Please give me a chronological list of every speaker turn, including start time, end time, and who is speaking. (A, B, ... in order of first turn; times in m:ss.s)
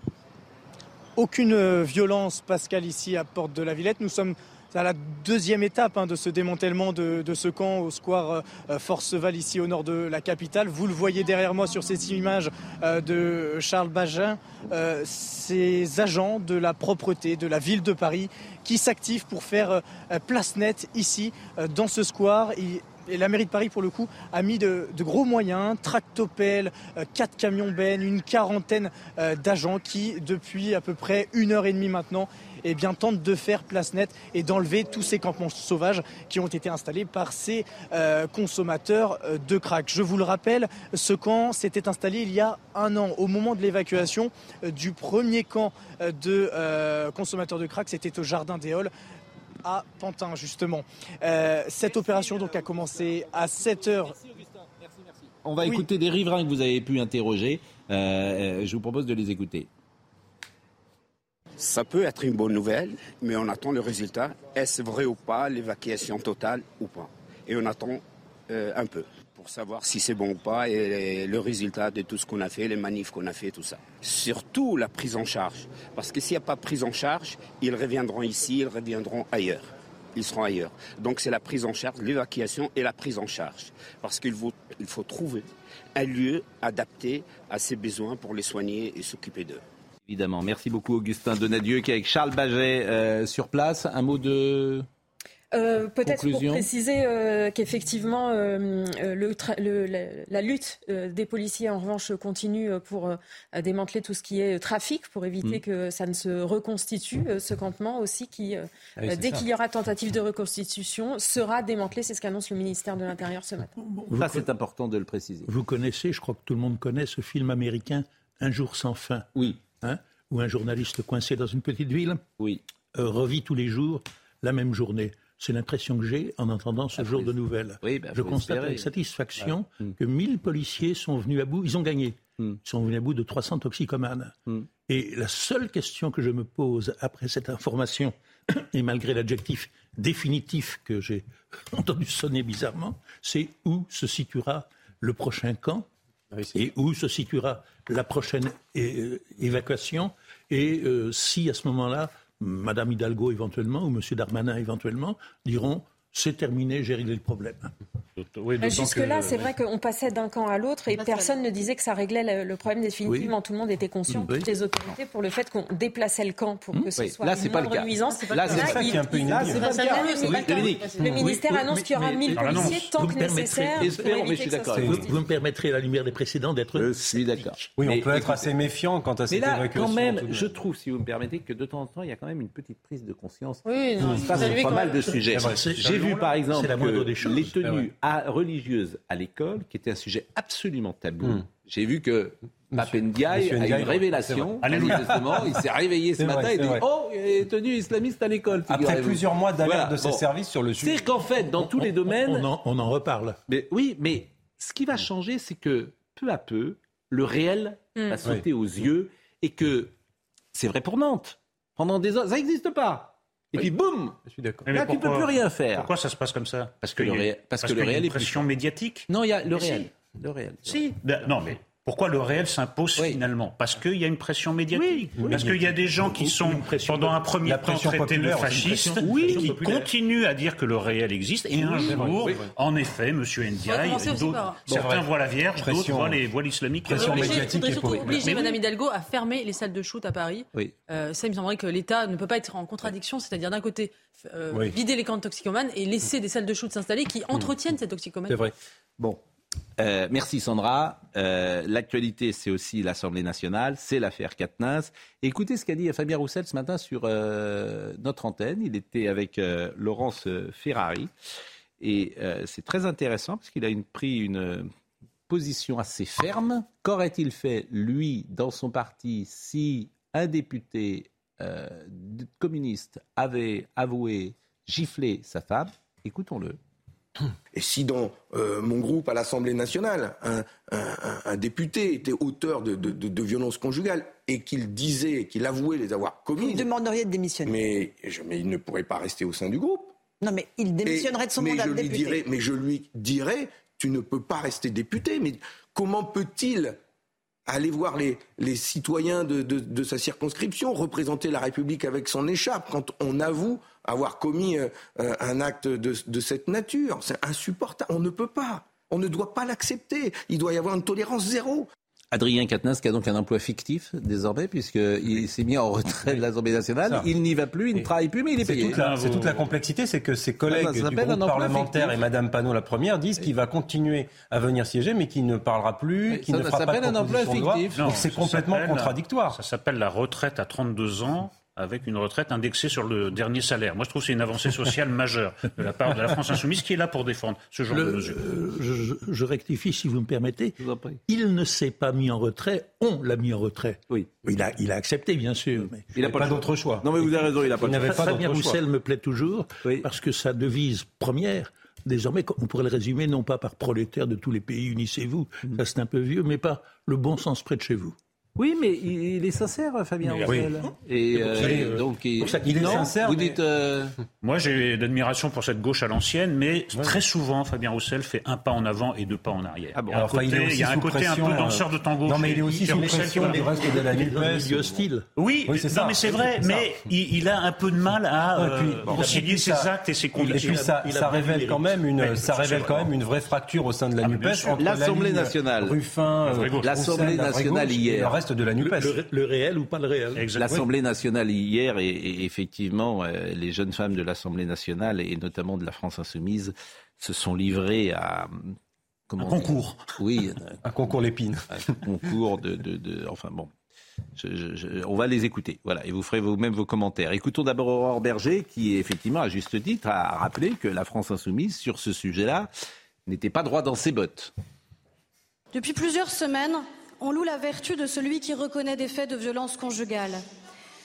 0:01.2-0:48.9 A
0:49.6-0:54.2 A
0:51.8-0:59.7 B
1:01.6-1:29.6 C
1:30.1-1:34.9 B
1:35.5-1:53.7 D
1:36.0-1:36.7 B
1:49.0-1:49.4 E
1:53.8-1:54.5 F
1:54.2-1:55.5 B
1:55.5-2:02.2 F
2:02.9-2:25.9 F
2:07.0-2:08.9 B
2:26.5-2:37.7 F
2:38.2-2:39.5 G
2:38.6-2:55.2 D
2:43.1-2:43.3 B
2:44.1-2:44.5 B
2:46.7-2:51.4 B
2:48.1-2:51.3 H
2:48.5-2:49.6 E
2:51.2-2:57.6 F
2:52.3-2:52.9 G
2:53.8-2:55.1 B
2:56.8-2:58.5 B
2:57.8-3:00.6 E
2:59.3-3:20.2 B
3:03.7-3:04.9 H
3:04.0-3:04.6 E
3:04.4-3:07.6 F
3:05.3-3:06.2 E
3:12.7-3:15.6 E
3:14.6-3:15.2 G
3:16.2-3:16.8 E
3:18.7-3:21.1 E
3:20.8-3:22.5 B
3:21.6-3:23.4 F
3:23.5-3:29.9 B
3:30.5-3:34.2 B
3:34.2-3:34.7 E
3:34.7-3:39.9 G
3:34.7-3:35.9 B
3:36.8-3:38.5 B
3:39.1-3:40.8 B
3:40.7-3:57.5 G
3:43.0-3:43.2 B
3:44.7-3:45.6 B
3:45.2-3:49.6 E
3:48.9-3:49.9 F
3:49.2-3:49.5 B
3:51.8-3:52.4 E
3:53.6-3:54.6 H
3:54.7-3:56.2 E
3:56.8-3:58.5 E
3:57.0-4:08.4 H
3:57.9-3:58.1 B
3:58.2-3:58.5 G
4:09.8-4:21.1 B
4:21.8-4:24.7 B
4:25.3-4:36.6 B
4:37.5-4:46.7 I
4:46.4-4:47.6 J
4:47.4-4:50.0 I
4:50.2-4:52.2 J
4:50.8-4:56.8 I
4:57.5-5:11.7 I
5:12.1-5:18.9 B
5:18.4-5:29.4 E
5:18.7-5:19.5 G
5:20.5-5:22.0 B
5:26.1-5:28.0 B
5:27.8-5:38.2 G
5:37.7-5:45.9 F
5:40.6-5:41.0 B
5:45.6-5:48.5 B
5:46.0-5:48.5 E
5:47.6-5:58.0 F
5:58.4-6:03.9 B
6:00.0-6:00.5 E
6:01.2-6:03.4 E
6:01.3-6:03.0 F
6:04.2-6:13.7 G
6:09.8-6:10.0 B
6:09.9-6:14.8 E
6:12.5-6:15.0 F
6:15.2-6:20.7 G
6:15.5-6:16.5 E
6:18.4-6:19.7 E
6:18.9-6:19.3 F
6:20.2-6:21.8 F
6:20.2-6:29.0 E
6:22.0-6:22.9 G
6:24.0-6:24.6 G
6:24.6-6:25.8 B
6:26.2-6:26.8 G
6:26.6-6:28.2 B
6:28.6-6:30.3 F
6:30.2-6:30.6 G
6:30.4-6:38.6 B
6:39.1-6:40.6 B
6:39.2-6:39.9 G
6:40.6-6:41.6 E
6:41.5-6:43.5 B
6:44.2-6:52.5 B
6:53.1-6:54.3 B
6:55.5-7:00.2 K